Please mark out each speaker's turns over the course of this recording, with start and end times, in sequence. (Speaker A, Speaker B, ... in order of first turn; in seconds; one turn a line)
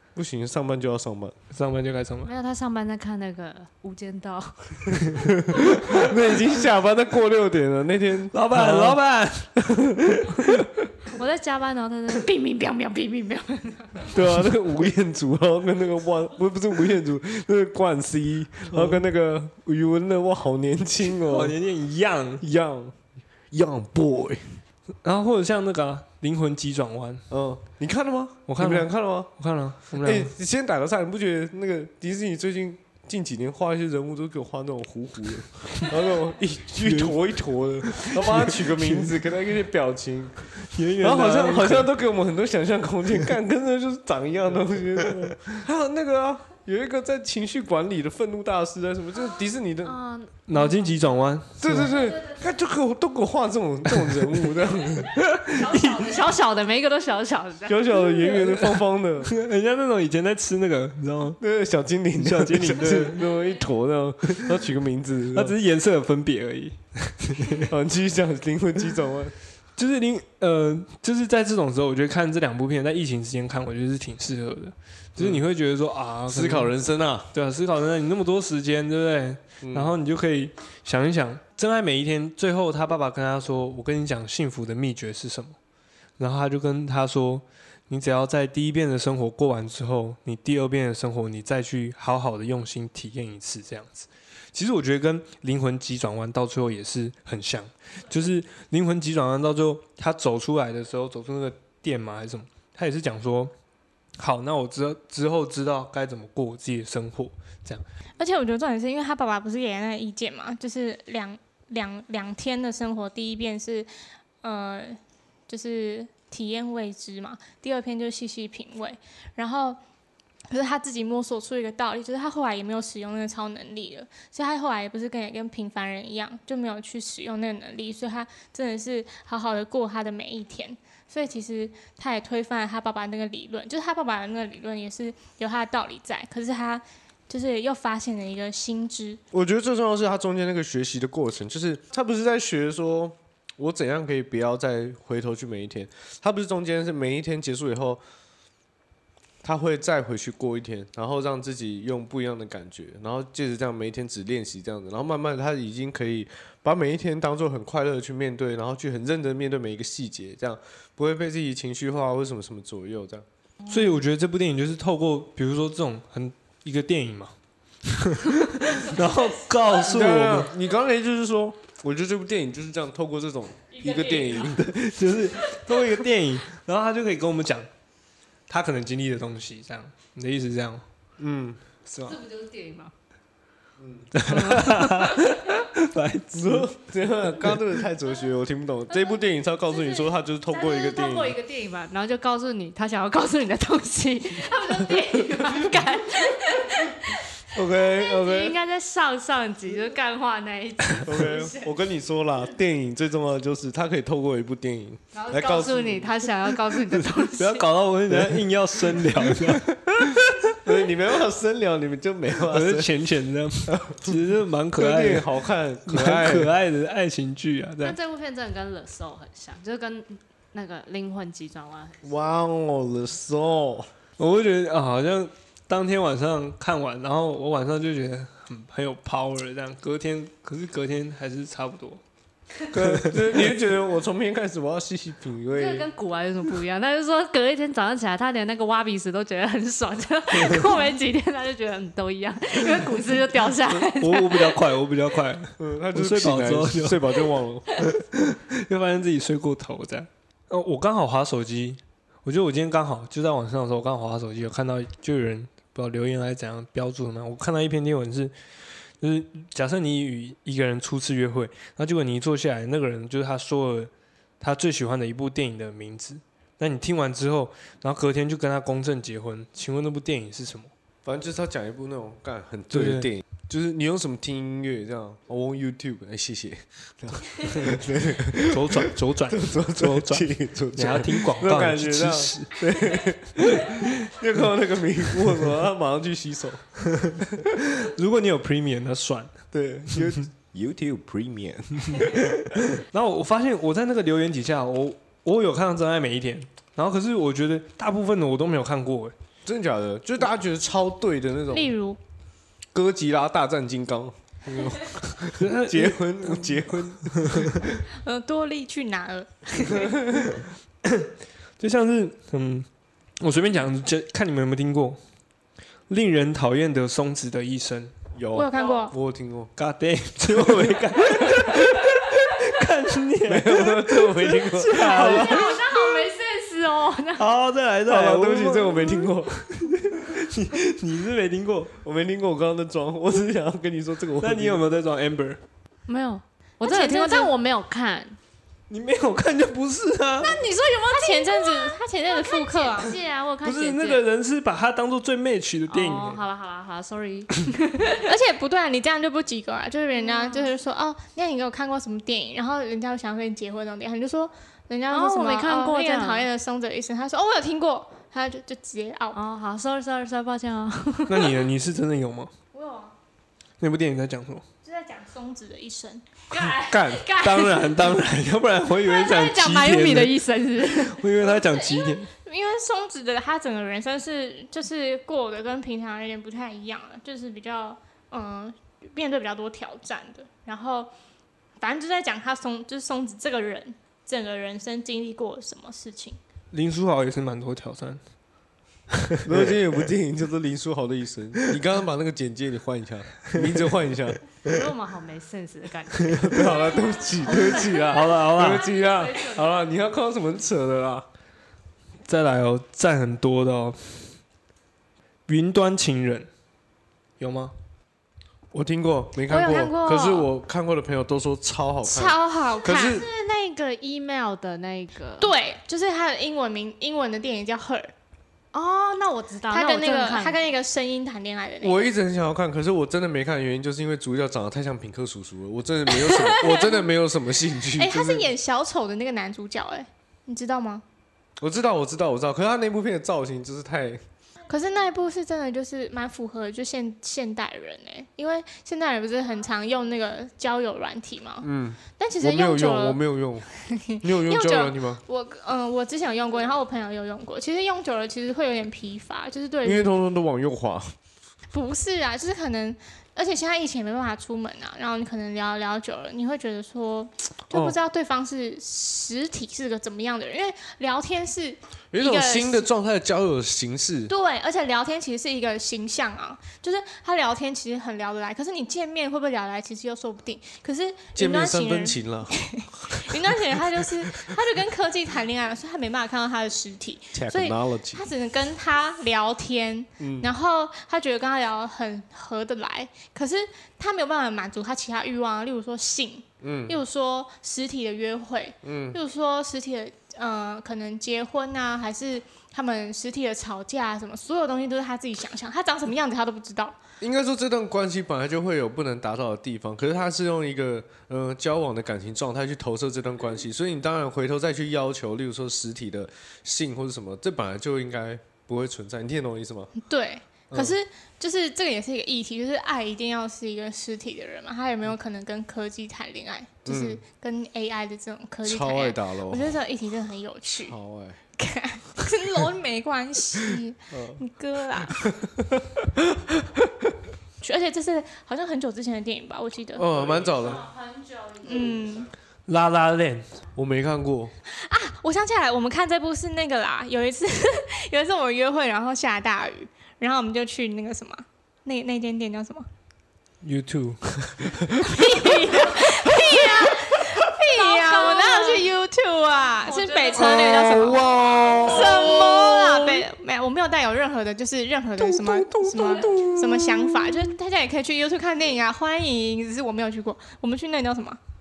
Speaker A: 0.1-1.4
Speaker B: 1.5-2.3
Speaker C: 2.3-5.2
Speaker A: 5.5-9.0
Speaker B: 8.3-9.5
Speaker A: 9.6-10.9
Speaker B: 10.2-10.5
Speaker C: 11.1-14.2
Speaker A: 14.1-21.6
Speaker B: 18.7-19.0
Speaker B: 21.0-22.4
Speaker A: 22.4-22.9
Speaker A: 23.5-24.6
Speaker B: 25.0-27.2
Speaker A: 27.3-29.3
Speaker B: 28.5-30.3
Speaker A: 30.0-40.4
Speaker B: 36.8-37.2
Speaker B: 37.8-39.2
Speaker B: 40.6-41.9
Speaker A: 41.0-50.0
Speaker B: 45.0-45.3
Speaker C: 49.8-51.1
Speaker B: 50.5-51.9
Speaker A: 51.6-55.2
Speaker C: 51.9-52.2
Speaker B: 53.9-54.3
Speaker B: 55.1-56.2
Speaker C: 55.5-58.3
Speaker A: 57.7-59.3
Speaker B: 58.2-61.4
Speaker A: 61.4-65.5
Speaker B: 62.2-63.3
Speaker B: 65.3-67.7
Speaker A: 67.6-69.3
Speaker B: 69.8-76.7
Speaker A: 75.2-75.4
Speaker A: 76.3-77.3
Speaker B: 77.3-85.6
Speaker A: 79.6-80.0
Speaker B: 86.2-103.5
Speaker B: 104.2-107.8
Speaker D: 108.2-113.9
Speaker D: 114.4-119.8
Speaker D: 120.5-139.2
Speaker A: 139.3-148.0
Speaker A: 149.4-163.2
Speaker B: 163.7-167.3
Speaker B: 167.8-170.5
Speaker A: 169.8-175.0
Speaker C: 173.8-174.4
Speaker B: 174.4-177.7
Speaker B: 178.5-180.8
Speaker A: 181.2-181.6
Speaker B: 181.9-182.2
Speaker C: 182.0-182.9
Speaker A: 183.8-184.1
Speaker B: 184.1-186.7
Speaker C: 184.3-185.2
Speaker A: 186.3-191.4
Speaker C: 189.7-201.7
Speaker A: 197.5-198.6
Speaker A: 201.0-206.2
Speaker C: 205.1-207.7
Speaker B: 206.9-210.4
Speaker A: 208.1-209.6
Speaker A: 210.6-212.9
Speaker B: 212.5-215.3
Speaker A: 213.7-214.2
Speaker A: 214.8-216.5
Speaker B: 215.9-218.0
Speaker C: 217.8-222.0
Speaker A: 222.0-223.9
Speaker B: 224.2-232.0
Speaker A: 232.7-235.9
Speaker B: 232.7-233.4
Speaker C: 235.5-244.6
Speaker B: 240.3-240.6
Speaker B: 243.6-247.0
Speaker A: 245.6-247.9
Speaker B: 247.8-258.3
Speaker B: 259.0-270.7
Speaker A: 271.1-287.4
Speaker B: 272.7-273.1
Speaker B: 278.3-282.6
Speaker B: 286.9-290.2
Speaker A: 289.5-292.3
Speaker B: 291.9-299.1
Speaker A: 299.4-301.8
Speaker D: 301.5-302.0
Speaker A: 302.7-307.8
Speaker B: 305.3-307.5
Speaker D: 308.0-309.9
Speaker A: 309.7-310.3
Speaker B: 311.6-312.7
Speaker B: 313.2-315.0
Speaker B: 315.9-317.9
Speaker A: 318.1-319.5
Speaker D: 318.3-318.9
Speaker B: 319.6-325.6
Speaker A: 320.3-321.6
Speaker A: 323.3-325.7
Speaker C: 324.8-327.3
Speaker B: 327.2-331.7
Speaker A: 327.9-329.5
Speaker A: 331.8-334.6
Speaker B: 334.2-335.4
Speaker C: 335.9-338.2
Speaker D: 336.6-337.3
Speaker B: 338.7-340.4
Speaker C: 340.2-344.0
Speaker D: 340.9-342.9
Speaker B: 343.4-346.2
Speaker C: 345.7-348.1
Speaker D: 348.0-359.2
Speaker C: 349.9-350.5
Speaker C: 354.9-356.3
Speaker C: 359.1-361.4
Speaker B: 361.1-362.3
Speaker D: 362.5-362.9
Speaker B: 363.6-364.4
Speaker D: 364.6-366.0
Speaker C: 366.3-368.0
Speaker A: 366.5-367.1
Speaker B: 366.7-372.1
Speaker C: 368.7-371.0
Speaker D: 371.2-380.9
Speaker D: 381.6-386.2
Speaker B: 386.5-388.0
Speaker B: 388.9-389.6
Speaker A: 389.2-394.3
Speaker B: 393.3-393.6
Speaker C: 394.4-399.5
Speaker A: 396.2-401.1
Speaker B: 397.9-398.7
Speaker B: 402.1-404.2
Speaker B: 405.3-406.3
Speaker B: 407.2-407.5
Speaker A: 408.5-413.1
Speaker D: 409.3-410.2
Speaker D: 411.8-413.0
Speaker C: 412.6-415.3
Speaker D: 415.2-417.9
Speaker C: 418.5-420.4
Speaker D: 419.5-421.9
Speaker A: 421.6-428.3
Speaker D: 426.0-426.8
Speaker D: 427.8-430.8
Speaker A: 431.4-434.0
Speaker D: 434.5-443.0
Speaker A: 441.4-443.5
Speaker D: 443.5-449.9
Speaker A: 444.0-445.0
Speaker A: 449.6-450.9
Speaker D: 451.5-462.7
Speaker A: 457.5-457.8
Speaker A: 461.9-464.1
Speaker D: 464.1-496.8
Speaker A: 471.1-473.6
Speaker A: 477.1-478.0
Speaker A: 480.0-480.3
Speaker A: 486.4-486.8
Speaker A: 488.6-489.0
Speaker A: 497.0-509.7
Speaker D: 509.8-520.8
Speaker A: 510.5-510.8
Speaker A: 516.7-517.0
Speaker A: 518.4-519.5
Speaker A: 520.7-521.2
Speaker D: 521.4-525.1
Speaker A: 523.9-524.2
Speaker A: 524.9-527.0
Speaker D: 527.4-529.9
Speaker A: 529.8-530.6
Speaker C: 530.1-531.8
Speaker D: 531.4-532.1
Speaker B: 532.5-533.4
Speaker A: 533.6-534.3
Speaker D: 534.5-542.7
Speaker B: 543.4-544.6
Speaker D: 544.8-561.2
Speaker C: 545.5-546.8
Speaker C: 547.4-548.7
Speaker C: 549.6-551.9
Speaker A: 550.1-553.0
Speaker A: 555.0-557.3
Speaker C: 555.8-556.1